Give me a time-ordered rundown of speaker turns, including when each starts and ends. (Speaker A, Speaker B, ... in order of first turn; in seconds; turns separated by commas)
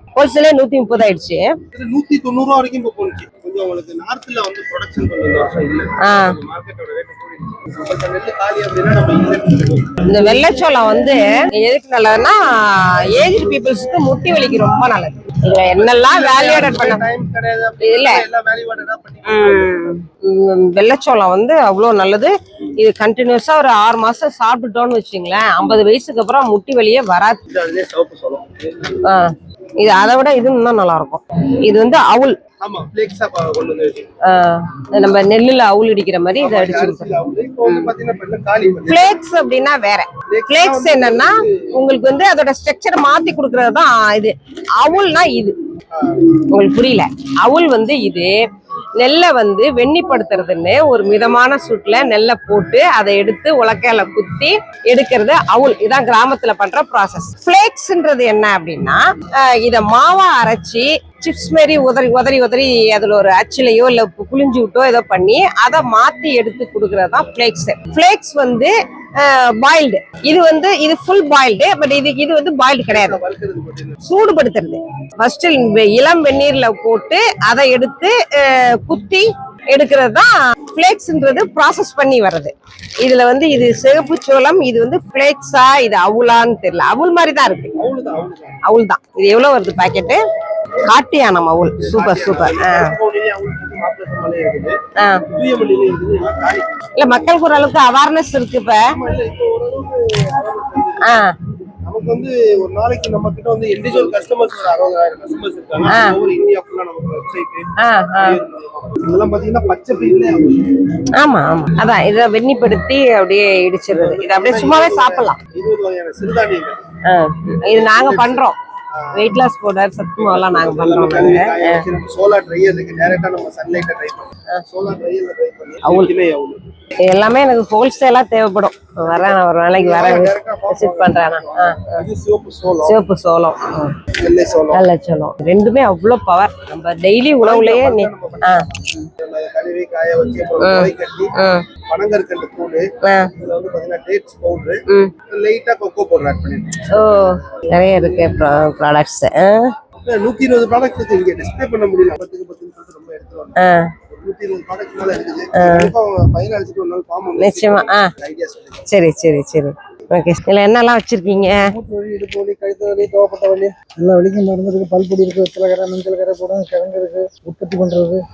Speaker A: 0.1-1.5, Speaker B: 1.7-10.0, Speaker A: 6.0-6.3, Speaker A: 10.1-17.0, Speaker B: 15.7-19.8, Speaker A: 17.8-18.2, Speaker A: 19.3-27.4, Speaker B: 27.5-28.9, Speaker A: 29.8-32.4, Speaker B: 32.6-34.1, Speaker A: 34.2-37.1, Speaker B: 36.4-39.2, Speaker A: 38.9-45.5, Speaker B: 40.3-41.6, Speaker B: 45.9-46.2, Speaker A: 46.5-48.3, Speaker A: 49.0-73.2, Speaker B: 72.9-74.0, Speaker A: 74.0-87.7, Speaker B: 87.8-88.6, Speaker A: 88.6-90.2, Speaker A: 90.9-92.9, Speaker B: 91.8-94.8, Speaker A: 95.0-95.2, Speaker B: 95.3-96.7, Speaker A: 97.0-98.9, Speaker B: 98.9-101.2, Speaker A: 101.0-101.3, Speaker B: 101.8-110.8, Speaker A: 107.8-108.4, Speaker A: 111.2-115.4, Speaker B: 113.9-116.8, Speaker A: 117.1-118.5, Speaker B: 117.6-119.4, Speaker A: 119.1-121.8, Speaker B: 120.2-126.6, Speaker A: 125.8-126.1, Speaker A: 127.0-131.9, Speaker B: 129.1-133.0, Speaker A: 132.8-133.9, Speaker B: 134.2-134.8, Speaker A: 134.7-138.6, Speaker B: 137.4-141.3, Speaker A: 140.6-141.6, Speaker B: 141.9-147.6, Speaker A: 143.0-143.3, Speaker A: 146.9-149.7, Speaker B: 150.0-153.6, Speaker B: 154.1-158.8, Speaker A: 155.5-155.9, Speaker A: 157.4-158.0, Speaker A: 158.9-161.6, Speaker C: 161.2-168.2